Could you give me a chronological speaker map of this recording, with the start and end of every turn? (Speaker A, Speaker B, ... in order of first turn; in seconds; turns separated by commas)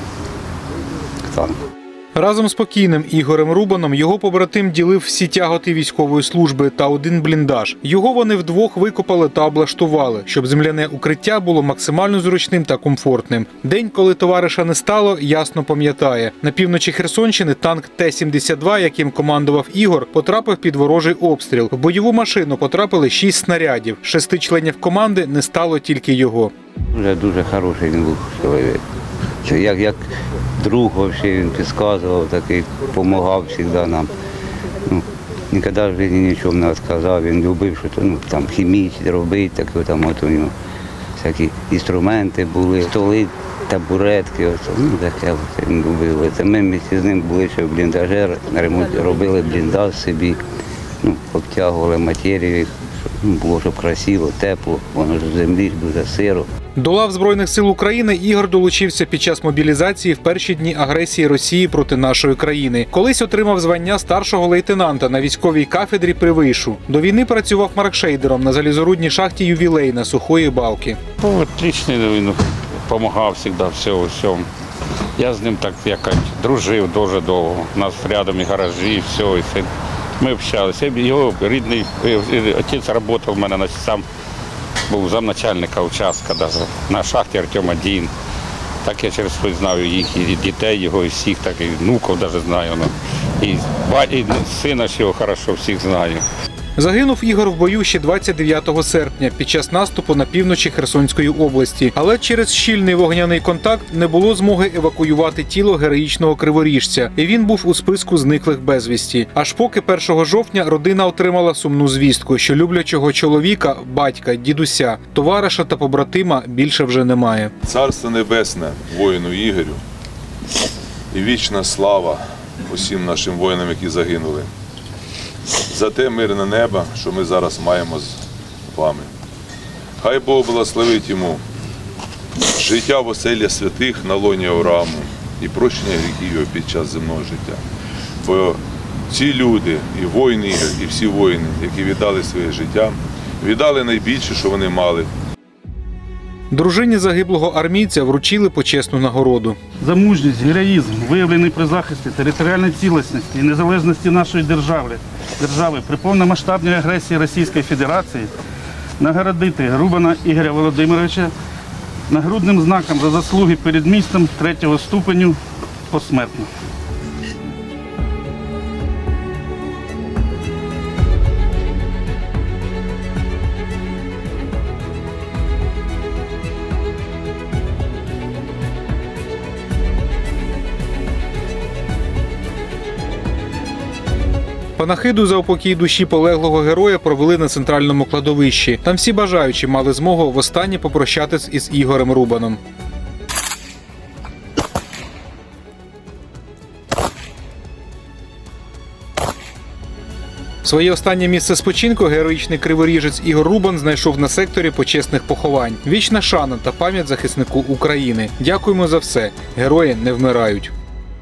Speaker A: 1.2-1.6, Speaker B: 2.1-26.5, Speaker A: 26.9-28.8, Speaker A: 29.4-34.1, Speaker A: 34.8-40.5, Speaker A: 41.2-50.4, Speaker A: 51.0-56.5, Speaker B: 56.8-71.0, Speaker C: 71.2-74.5, Speaker C: 75.2-84.0, Speaker C: 84.9-88.1, Speaker C: 88.8-96.2, Speaker B: 96.8-117.5, Speaker D: 117.7-119.8, Speaker D: 121.1-124.5, Speaker D: 125.7-128.2, Speaker D: 128.7-129.1, Speaker D: 130.0-131.4, Speaker D: 132.5-137.6, Speaker D: 138.2-145.1, Speaker B: 146.5-149.6, Speaker E: 149.8-158.3, Speaker E: 159.0-161.3, Speaker E: 162.1-165.4, Speaker E: 165.9-166.5, Speaker B: 184.8-192.6, Speaker B: 200.6-210.7